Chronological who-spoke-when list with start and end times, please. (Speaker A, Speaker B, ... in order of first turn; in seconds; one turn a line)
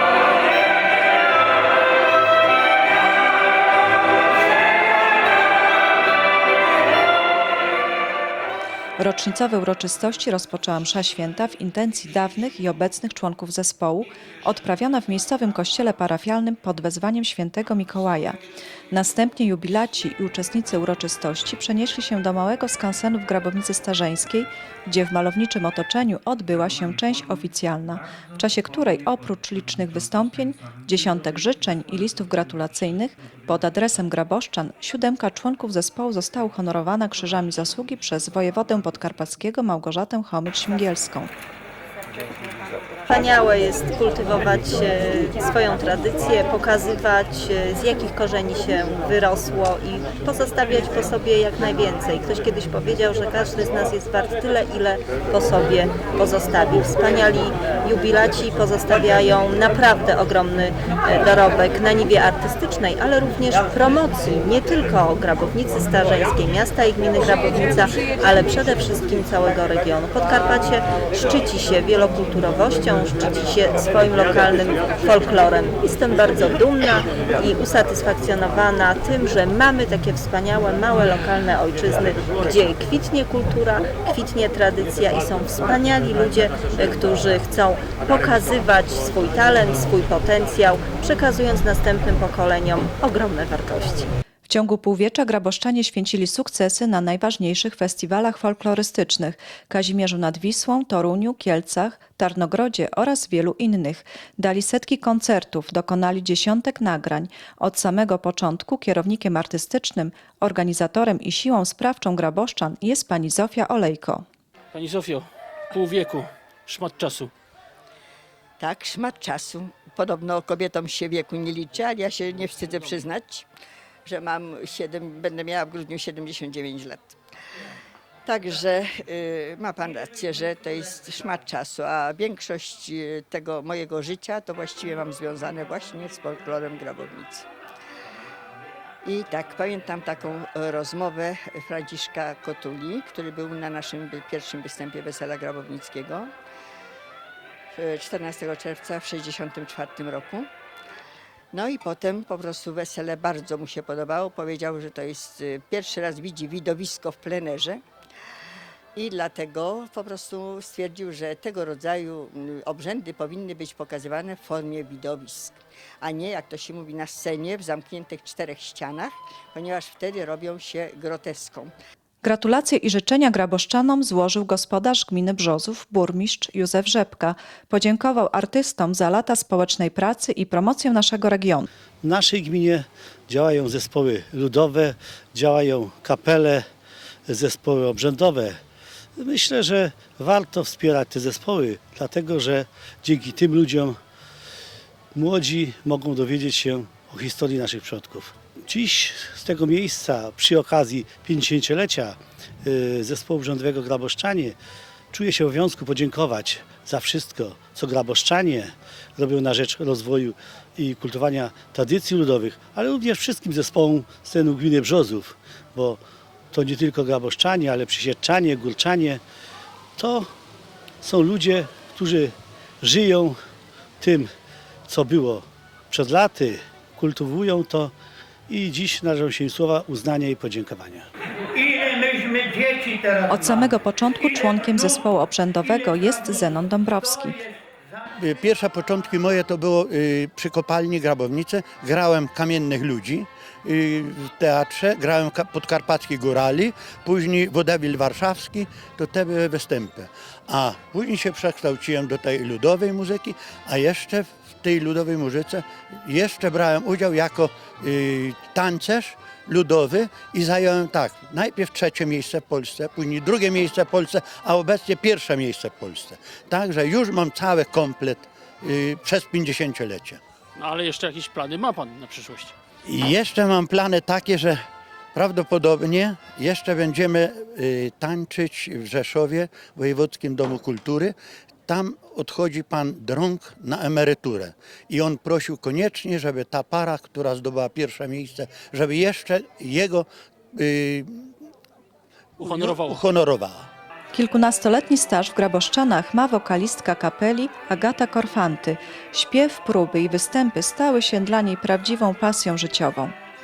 Speaker A: 9.0-18.4
Speaker A: 18.9-41.3
Speaker B: 43.1-94.1
Speaker A: 94.5-114.2
Speaker C: 114.7-117.3
Speaker D: 118.6-123.5
Speaker D: 124.0-127.2
Speaker D: 128.2-137.5
Speaker D: 139.0-146.3
Speaker D: 147.8-150.5
Speaker D: 151.5-157.8
Speaker D: 158.9-171.7
Speaker A: 172.2-181.7
Speaker E: 182.0-186.7
Speaker E: 187.3-188.6
Speaker E: 189.2-194.0
Speaker E: 195.1-204.6
Speaker E: 205.1-219.2
Speaker E: 220.0-220.3
Speaker E: 221.0-223.4
Speaker E: 224.0-224.3
Speaker E: 224.9-227.9
Speaker E: 228.5-231.1
Speaker A: 233.2-237.4
Speaker F: 238.2-270.2
Speaker C: 270.6-272.5
Speaker F: 272.9-274.6
Speaker F: 275.1-281.1
Speaker F: 281.7-291.3
Speaker C: 292.4-293.0
Speaker F: 292.4-293.7
Speaker A: 294.1-303.1